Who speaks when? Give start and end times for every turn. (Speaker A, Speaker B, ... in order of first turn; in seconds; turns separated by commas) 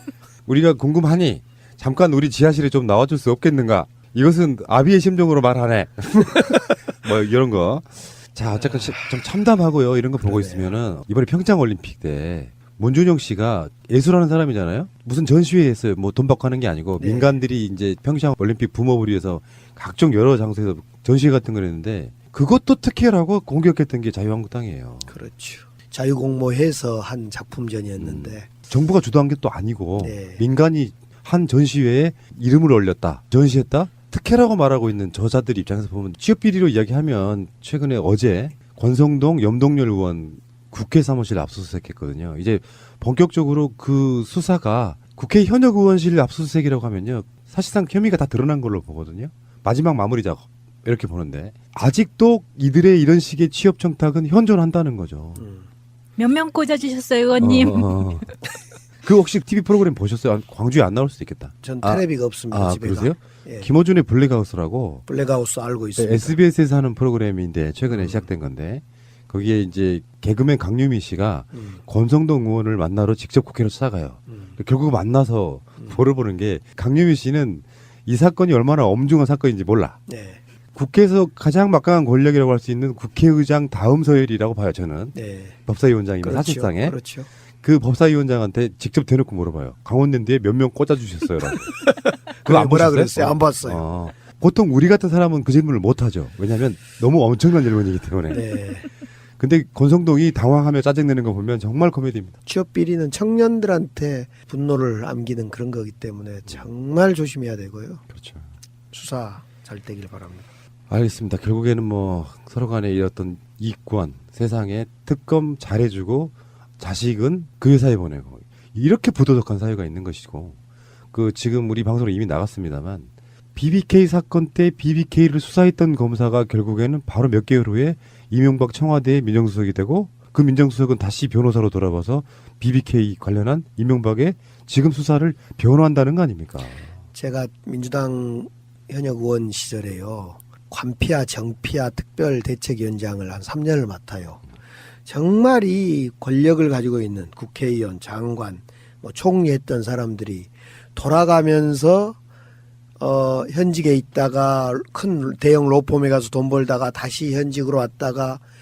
Speaker A: 0.5-25.1, Speaker B: 10.2-10.7, Speaker B: 17.0-17.3, Speaker B: 25.1-28.5, Speaker A: 28.0-55.4, Speaker B: 30.0-30.4, Speaker B: 55.4-55.6, Speaker C: 56.2-58.1, Speaker A: 57.4-58.3, Speaker A: 59.0-65.0, Speaker B: 61.6-63.7, Speaker B: 65.1-66.4, Speaker A: 66.0-80.0, Speaker B: 67.9-68.3, Speaker B: 80.1-80.4, Speaker A: 80.8-87.0, Speaker B: 85.2-85.6, Speaker B: 86.2-87.3, Speaker A: 87.6-91.7, Speaker B: 91.8-93.8, Speaker A: 92.5-98.4, Speaker B: 98.3-98.9, Speaker A: 99.4-102.3, Speaker B: 102.5-108.0, Speaker A: 108.1-108.5, Speaker B: 108.9-110.5, Speaker A: 110.9-120.6, Speaker A: 121.1-136.9, Speaker B: 137.1-144.4, Speaker B: 145.1-152.2, Speaker B: 153.0-158.4